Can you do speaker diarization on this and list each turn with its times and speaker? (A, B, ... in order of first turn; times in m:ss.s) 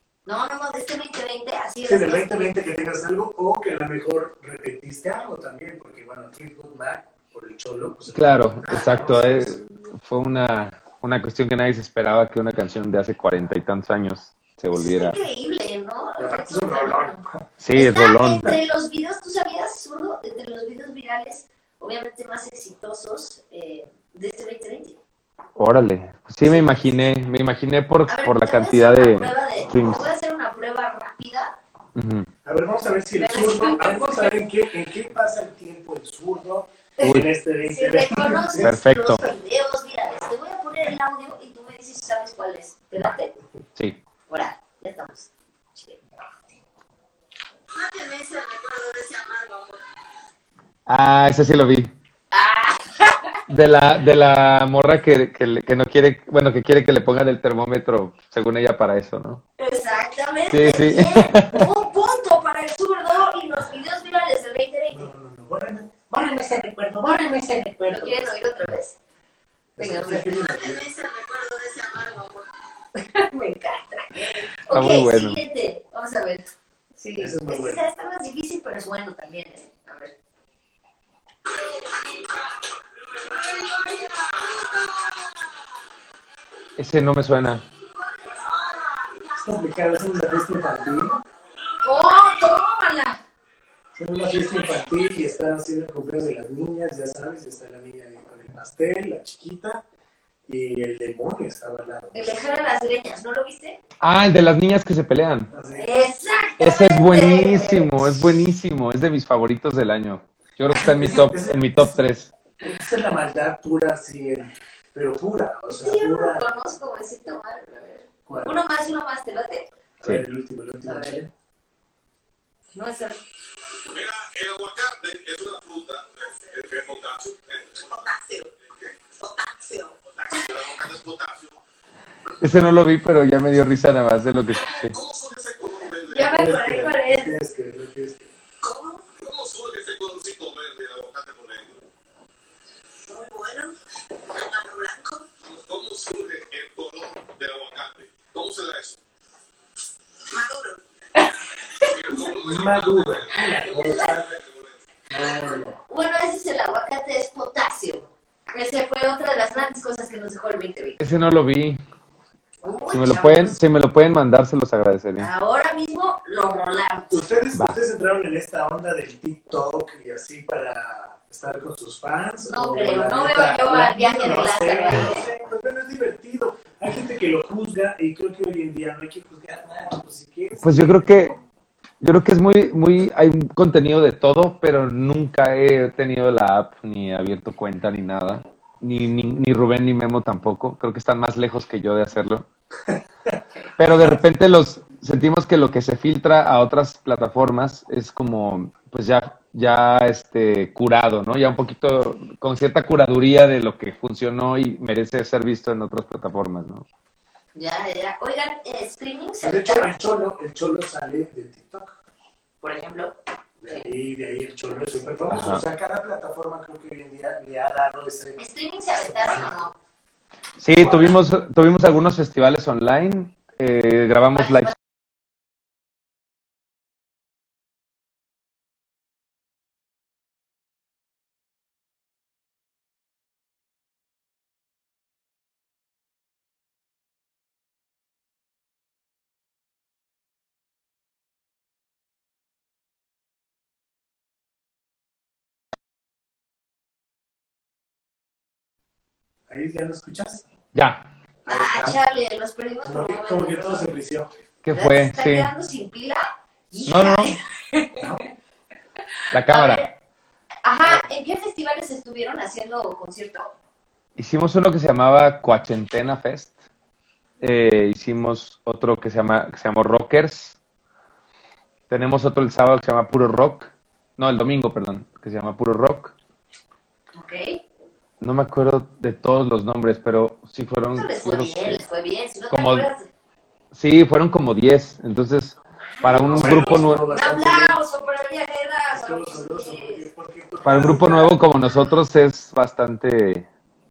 0:00.3-0:02.6 A
0:01.8-0:09.5 B
0:08.1-0:15.2 C
0:08.7-0:09.5 A
0:14.7-0:17.2 A
0:16.2-0:17.4 B
0:17.6-0:18.6 C
0:17.7-0:25.0 A
0:25.6-0:30.0 C
0:26.4-0:27.0 A
0:28.1-0:31.6 A
0:32.0-0:32.3 C
0:32.4-0:38.8 B
0:33.2-0:34.4 A
0:37.0-0:43.3 A
0:37.0-0:37.3 C
0:38.6-0:39.3 C
0:44.3-0:46.0 A
0:47.8-0:49.8 D
0:50.9-0:51.9 C
0:52.3-0:53.4 A
0:53.5-0:59.4 C
0:59.6-1:05.1 A
1:00.5-1:01.7 C
1:04.9-1:08.4 B
1:07.9-1:09.0 A
1:09.8-1:10.9 B
1:09.8-1:10.6 A
1:10.7-1:12.4 D
1:13.0-1:20.1 A
1:14.7-1:15.4 C
1:17.2-1:17.8 B
1:23.7-1:24.3 D
1:26.8-1:27.6 C
1:29.4-1:31.2 B
1:31.8-1:33.2 A
1:34.0-1:39.8 B
1:40.5-1:42.6 B
1:42.1-1:43.8 A
1:44.0-1:45.5 C
1:45.5-1:45.9 B
1:45.8-1:48.2 A
1:46.6-1:52.3 C
1:50.7-1:52.0 B
1:52.6-1:56.5 B
1:55.7-1:59.7 A
1:58.3-1:58.6 B
2:00.0-2:01.3 B
2:00.8-2:01.2 A
2:02.7-2:03.2 A
2:03.9-2:07.6 E
2:04.4-2:07.3 D
2:08.0-2:08.4 A
2:09.2-2:09.8 A
2:10.3-2:11.5 E
2:10.3-2:10.8 D
2:12.4-2:15.0 C
2:14.9-2:15.9 D
2:15.0-2:16.2 E
2:16.0-2:17.3 A
2:16.2-2:18.3 B
2:18.6-2:21.3 D
2:19.2-2:21.8 E
2:23.1-2:23.7 A
2:24.6-2:25.0 A
2:25.5-2:29.0 E
2:31.9-2:33.2 E
2:32.3-2:34.4 B
2:35.1-2:35.8 B
2:35.8-2:41.0 A
2:41.0-2:41.8 C
2:42.6-2:43.6 A
2:42.9-2:45.3 C
2:45.2-2:47.2 A
2:47.1-3:01.4 B
2:52.4-2:55.2 A
3:00.6-3:01.4 C
3:02.0-3:12.5 C
3:13.8-3:26.9 C
3:27.6-3:30.0 A
3:29.4-3:32.0 B
3:32.6-3:33.2 A
3:33.6-3:39.7 B
3:35.3-3:35.6 C
3:38.4-3:39.7 A
3:40.6-3:44.8 C
3:40.8-3:41.2 B
3:44.4-3:44.8 A
4:09.5-4:10.4 B
4:10.7-4:11.1 C
4:11.4-4:12.0 B
4:11.5-4:13.9 A
4:12.8-4:14.3 B
4:14.6-4:15.5 C
4:14.7-4:18.2 A
4:16.9-4:17.4 C
4:18.0-4:18.2 B
4:19.3-4:19.8 C
4:19.5-4:20.0 A
4:20.6-4:23.5 A
4:24.2-4:26.6 C
4:27.4-4:30.6 C
4:31.9-4:36.1 C
4:37.1-4:37.6 A
4:38.2-4:41.8 C
4:40.9-4:43.1 A
4:42.5-4:42.9 C
4:43.7-4:47.0 C
4:45.8-4:50.1 A
4:46.2-4:47.8 B
4:48.9-4:51.4 B
4:50.6-4:53.5 C